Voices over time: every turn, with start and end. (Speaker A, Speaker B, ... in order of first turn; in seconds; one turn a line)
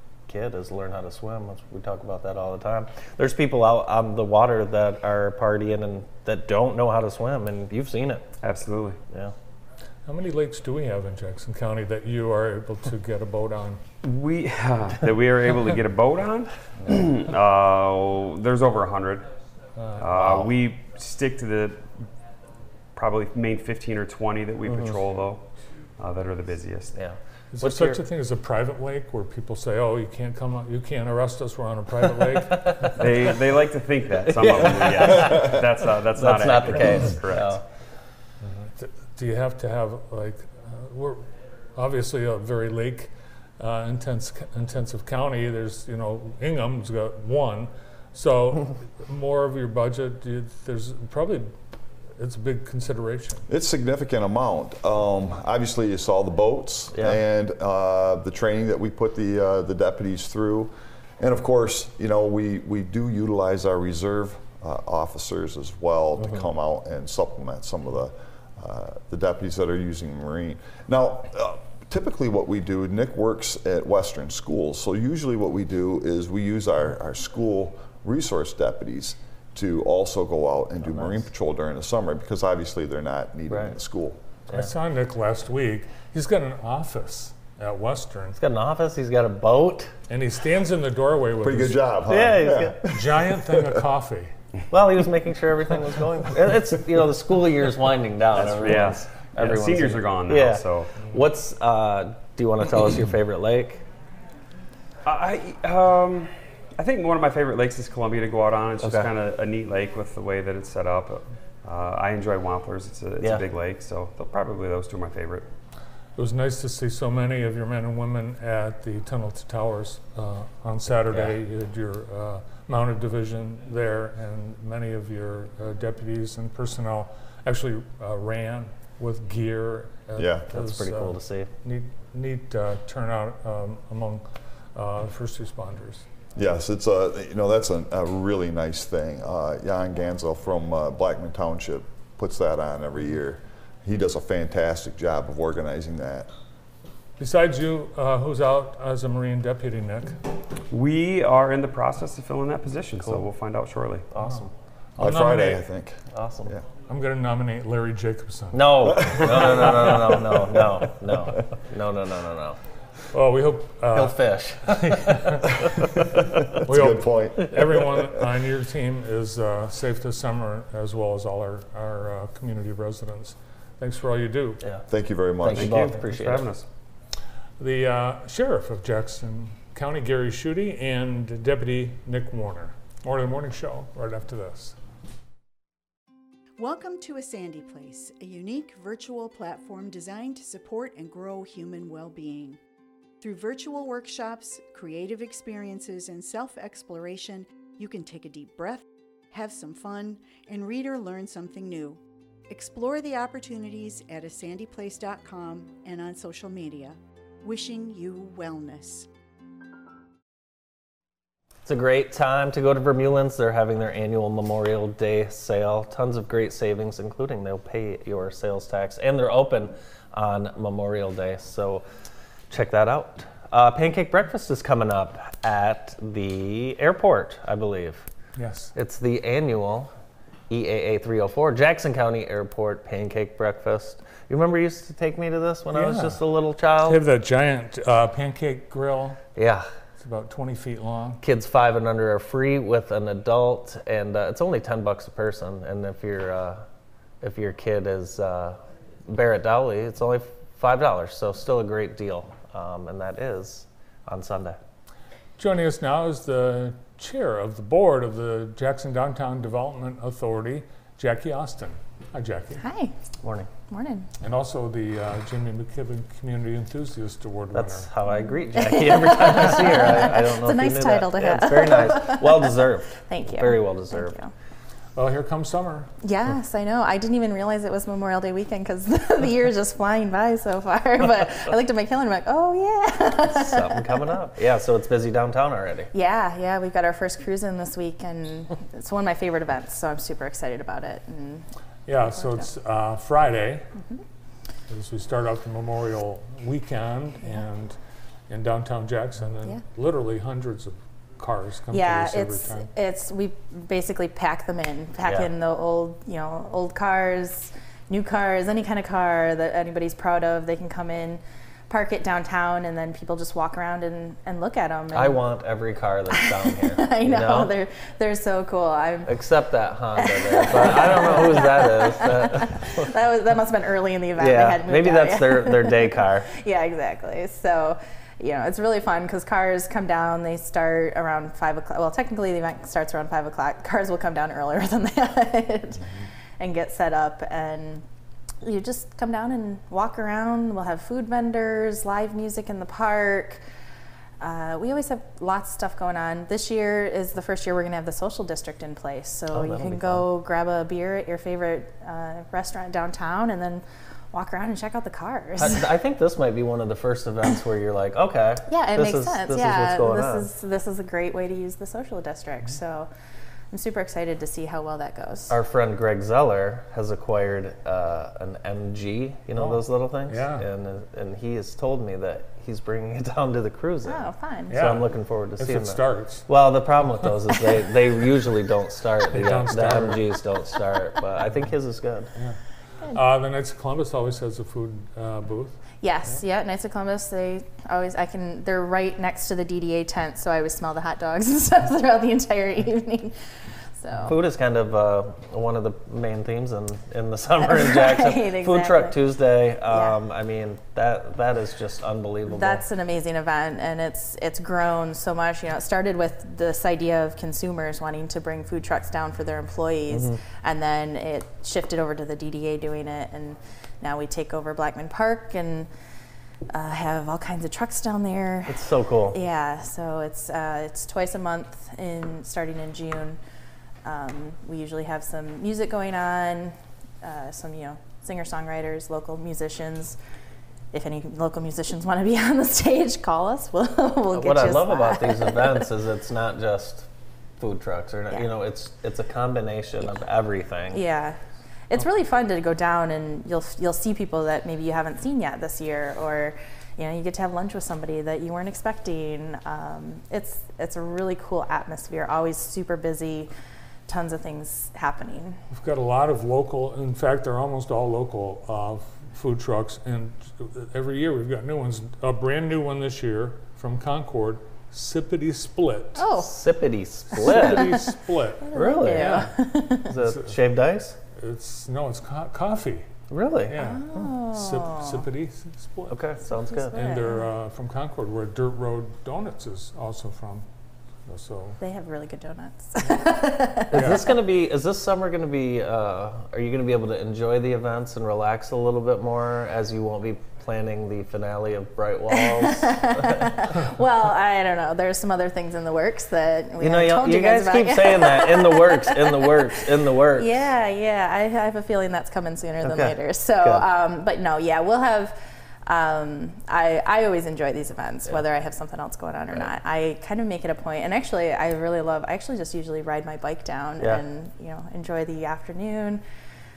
Speaker A: 0.3-8.2
Speaker B: 8.4-9.0
Speaker A: 9.1-9.3
Speaker C: 10.1-13.8
Speaker B: 14.0-19.3
Speaker C: 19.8-20.2
Speaker B: 19.9-22.1
Speaker B: 22.9-27.0
Speaker A: 24.7-25.0
Speaker A: 26.9-28.0
Speaker C: 27.5-33.0
Speaker A: 32.0-33.3
Speaker B: 32.9-37.6
Speaker A: 34.1-37.6
Speaker C: 38.4-51.5
Speaker C: 52.1-53.5
Speaker D: 53.5-84.2
Speaker A: 56.9-57.2
Speaker A: 66.2-66.4
Speaker A: 80.8-81.2
Speaker A: 83.5-83.8
Speaker C: 84.5-88.4
Speaker A: 88.4-89.9
Speaker C: 90.1-91.8
Speaker D: 91.4-93.8
Speaker A: 92.1-92.8
Speaker C: 92.8-94.3
Speaker A: 94.7-103.8
Speaker B: 98.3-101.1
Speaker B: 105.0-115.5
Speaker A: 108.8-109.1
Speaker C: 116.2-134.2
Speaker A: 121.1-121.3
Speaker D: 130.2-130.4
Speaker A: 130.5-131.5
Speaker C: 134.7-136.1
Speaker D: 136.3-146.3
Speaker C: 147.2-150.2
Speaker B: 150.7-154.1
Speaker A: 153.0-153.3
Speaker A: 154.1-154.5
Speaker C: 155.0-155.7
Speaker D: 155.0-156.6
Speaker A: 156.1-156.5
Speaker C: 156.9-160.6
Speaker A: 158.5-162.6
Speaker C: 163.1-165.9
Speaker A: 163.9-166.2
Speaker D: 166.6-168.2
Speaker C: 166.6-174.6
Speaker D: 174.9-175.9
Speaker A: 175.4-176.5
Speaker B: 175.4-176.7
Speaker C: 177.6-184.8
Speaker E: 186.6-192.6
Speaker E: 193.2-209.1
Speaker A: 211.6-221.8
Speaker A: 222.5-228.1
Speaker C: 228.3-228.7
Speaker A: 228.7-229.9
Speaker A: 230.5-237.0
Speaker C: 235.7-236.2
Speaker C: 236.8-239.2
Speaker A: 239.3-239.7
Speaker C: 240.0-241.2
Speaker A: 241.2-246.6
Speaker A: 247.2-254.6
Speaker C: 255.4-262.6
Speaker F: 262.6-262.9
Speaker A: 263.2-263.5
Speaker F: 263.6-264.1
Speaker C: 264.2-267.9
Speaker A: 267.5-274.1
Speaker F: 268.5-274.3
Speaker C: 274.9-275.9
Speaker F: 276.0-284.1
Speaker A: 283.2-285.9
Speaker F: 285.9-291.5
Speaker C: 291.9-293.6
Speaker F: 292.0-292.5
Speaker F: 293.8-294.0
Speaker C: 294.7-297.8
Speaker C: 298.3-302.7
Speaker F: 301.7-315.3
Speaker A: 305.0-305.3
Speaker A: 314.9-317.5
Speaker F: 316.1-319.1
Speaker A: 319.0-322.9
Speaker F: 319.9-335.9
Speaker A: 324.1-326.3
Speaker F: 336.4-337.8
Speaker F: 338.4-343.4
Speaker F: 344.2-355.7
Speaker A: 349.3-350.1
Speaker A: 355.4-360.3
Speaker F: 358.5-362.9
Speaker F: 363.5-365.3
Speaker A: 365.3-382.1
Speaker C: 369.4-370.4
Speaker F: 373.8-374.6
Speaker C: 374.5-376.3
Speaker C: 379.1-380.0
Speaker C: 382.2-386.2
Speaker F: 385.8-393.1
Speaker F: 393.8-394.2
Speaker A: 394.0-402.6
Speaker F: 397.4-399.0
Speaker F: 399.7-400.0
Speaker F: 402.3-415.7
Speaker A: 409.9-410.2
Speaker F: 416.5-423.2
Speaker A: 418.5-419.2
Speaker F: 423.8-430.0
Speaker F: 430.7-435.7
Speaker A: 434.1-436.9
Speaker A: 437.4-440.8
Speaker F: 440.7-453.3
Speaker F: 453.9-455.4
Speaker C: 455.5-466.0
Speaker F: 466.0-466.3
Speaker A: 466.2-467.7
Speaker F: 467.1-469.9
Speaker C: 467.2-469.3
Speaker A: 468.5-469.3
Speaker A: 469.9-470.9
Speaker C: 470.0-470.3
Speaker C: 471.1-472.9
Speaker A: 473.1-473.6
Speaker C: 473.5-476.0
Speaker F: 473.5-475.1
Speaker A: 475.9-476.8
Speaker F: 476.4-477.3
Speaker C: 476.7-480.4
Speaker C: 481.1-481.6
Speaker F: 481.6-484.0
Speaker A: 483.7-493.3
Speaker C: 483.7-484.0
Speaker F: 492.1-516.0
Speaker A: 496.6-500.3
Speaker A: 502.6-503.6
Speaker A: 513.8-514.0